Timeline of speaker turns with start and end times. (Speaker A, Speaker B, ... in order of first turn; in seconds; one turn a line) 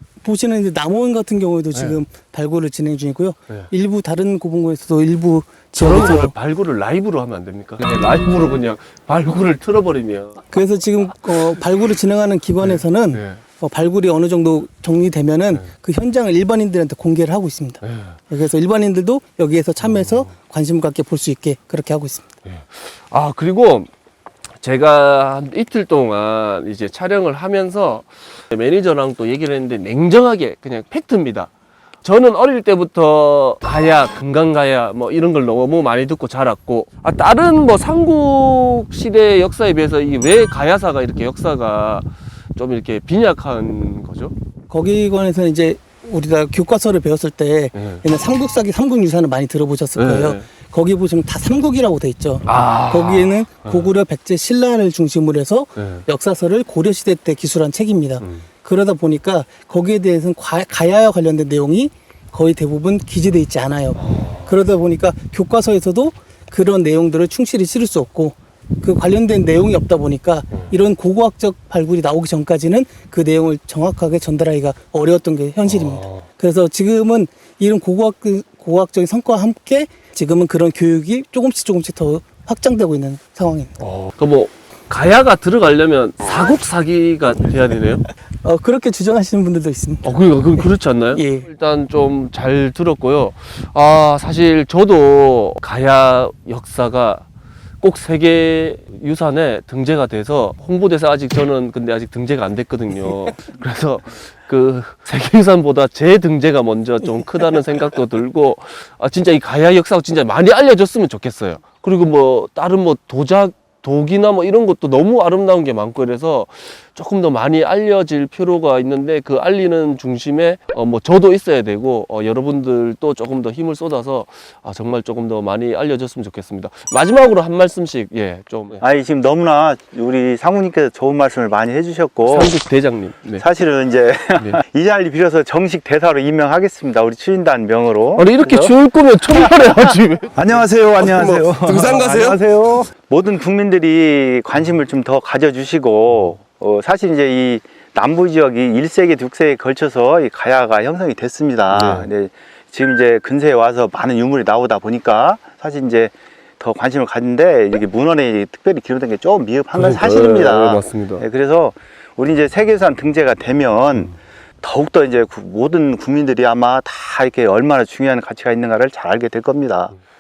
Speaker A: 0.2-6.3
Speaker B: 1.7-2.0
Speaker B: 5.8-10.4
Speaker A: 10.5-22.3
Speaker B: 12.6-13.4
Speaker B: 17.8-18.2
Speaker B: 19.8-20.3
Speaker B: 22.4-23.9
Speaker B: 24.6-31.5
Speaker B: 32.0-44.3
Speaker A: 44.7-83.7
Speaker B: 47.8-48.0
Speaker B: 50.0-50.5
Speaker B: 52.5-53.9
Speaker B: 55.8-56.0
Speaker B: 64.0-64.5
Speaker B: 75.6-76.2
Speaker B: 83.8-88.1
Speaker A: 88.4-91.5
Speaker B: 90.0-97.3
Speaker B: 97.8-128.8
Speaker C: 128.8-132.6
Speaker B: 132.2-133.4
Speaker C: 133.4-138.8
Speaker B: 138.2-142.4
Speaker C: 139.4-139.7
Speaker C: 140.3-169.9
Speaker B: 151.7-152.1
Speaker B: 159.8-161.2